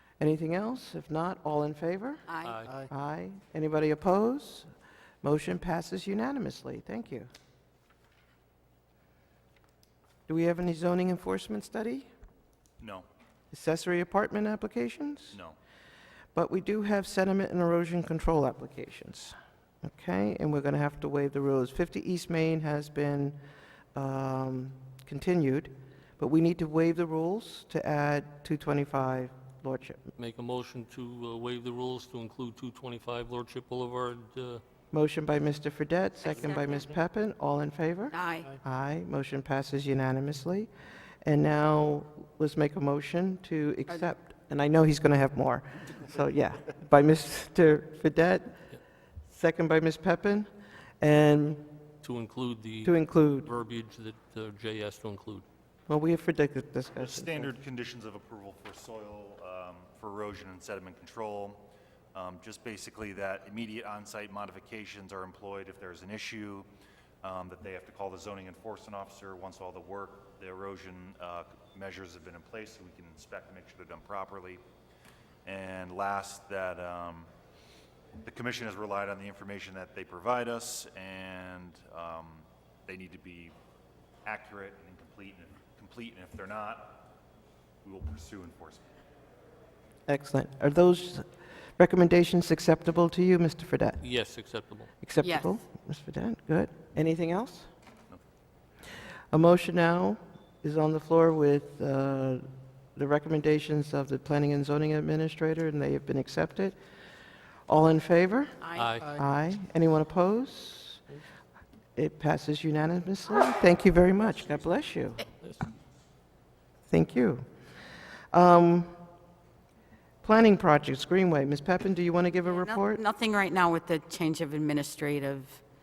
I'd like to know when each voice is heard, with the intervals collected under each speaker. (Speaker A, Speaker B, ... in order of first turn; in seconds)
Speaker A: 0.2-2.2, 2.9-4.7, 5.2-7.3, 10.3-12.1, 13.5-15.4, 16.3-23.4, 23.9-30.0, 34.9-40.7, 41.2-48.6, 49.3-50.5, 51.0-51.6, 52.8-53.5, 55.9-57.5, 90.1-94.0, 95.0-97.7, 99.3-106.8, 107.7-111.0, 112.0-115.3, 116.9-117.5, 118.3-119.0, 120.2-123.0
Speaker B: 2.3-2.6, 36.2-36.9, 38.1-38.5, 95.2-95.6, 108.6-109.0, 122.5-125.6
Speaker C: 2.4-2.8, 30.2-34.6, 52.0-55.5, 94.0-94.9, 108.8-109.1
Speaker D: 12.8-13.1, 57.0-66.7, 67.2-74.6, 75.5-77.3, 78.2-83.5, 84.2-87.0, 87.8-88.9